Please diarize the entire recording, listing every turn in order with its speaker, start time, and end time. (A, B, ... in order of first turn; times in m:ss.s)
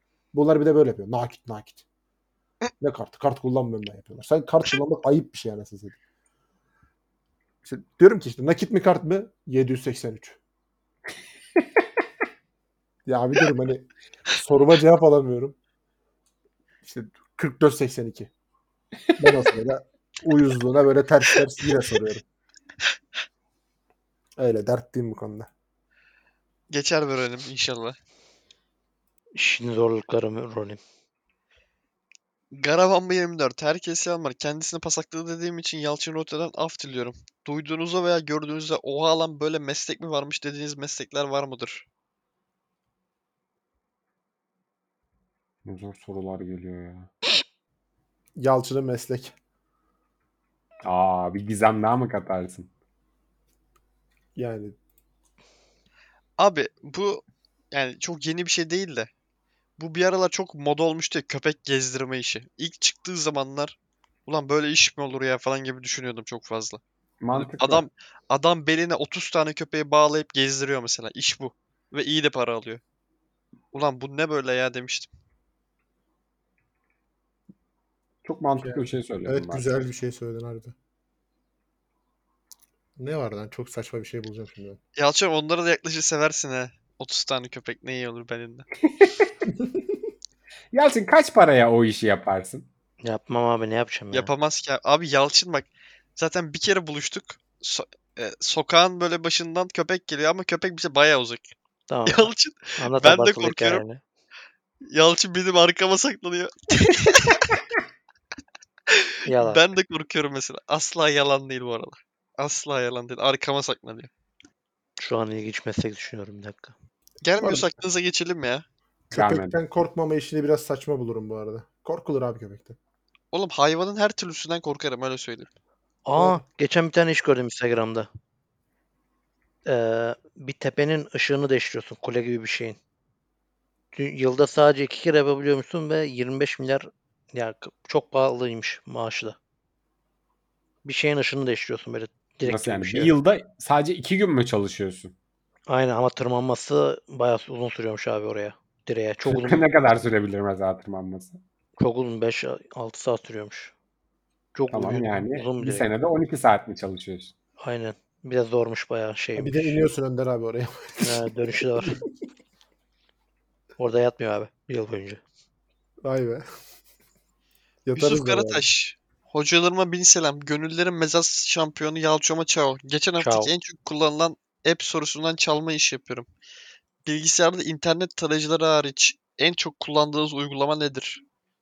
0:00.3-0:01.8 A
0:02.8-0:06.0 A
0:07.6-0:10.4 A
0:13.1-0:15.6 A
0:16.8-0:18.3 A
0:19.2-0:22.2 A
0:24.4-0:25.5 A
0:26.7-0:28.0 B
0:29.4-0:30.8 C
0:32.5-0:41.8 B
0:45.6-0:47.1 D
0:48.4-0:49.3 A
0:50.8-0:52.7 D
0:54.4-0:54.8 A
0:56.4-0:59.1 B
0:59.8-1:06.8 B
1:07.2-1:07.9 D
1:07.3-1:12.8 B
1:13.7-1:15.1 B
1:18.2-1:19.7 D
1:18.6-1:20.7 A
1:23.0-1:24.8 A
1:25.0-1:28.7 B
1:29.5-1:29.9 A
1:30.7-1:32.7 D
1:33.0-1:34.3 C
1:34.1-1:41.5 B
1:41.9-1:44.0 C
1:42.1-1:43.8 B
1:44.9-1:47.5 B
1:48.9-1:54.1 B
1:49.3-1:49.6 C
1:55.0-1:56.8 C
1:57.2-1:58.6 B
1:57.4-1:57.7 A
1:59.1-2:02.8 A
1:59.1-1:59.6 D
2:03.3-2:05.5 B
2:06.0-2:08.1 C
2:06.2-2:06.4 A
2:09.6-2:12.8 C
2:13.9-2:19.4 C
2:20.8-2:23.2 C
2:22.4-2:25.1 D
2:25.7-2:29.6 C
2:29.3-2:31.4 D
2:31.8-2:33.7 C
2:34.5-2:35.9 C
2:34.7-2:37.3 D
2:37.6-2:39.9 C
2:39.4-2:41.2 A
2:41.0-2:42.0 C
2:41.8-2:42.0 A
2:43.8-2:45.2 C
2:46.0-2:46.4 A
2:47.9-2:48.7 A
2:47.9-2:56.3 B
2:53.2-2:53.5 C
2:57.0-3:01.2 B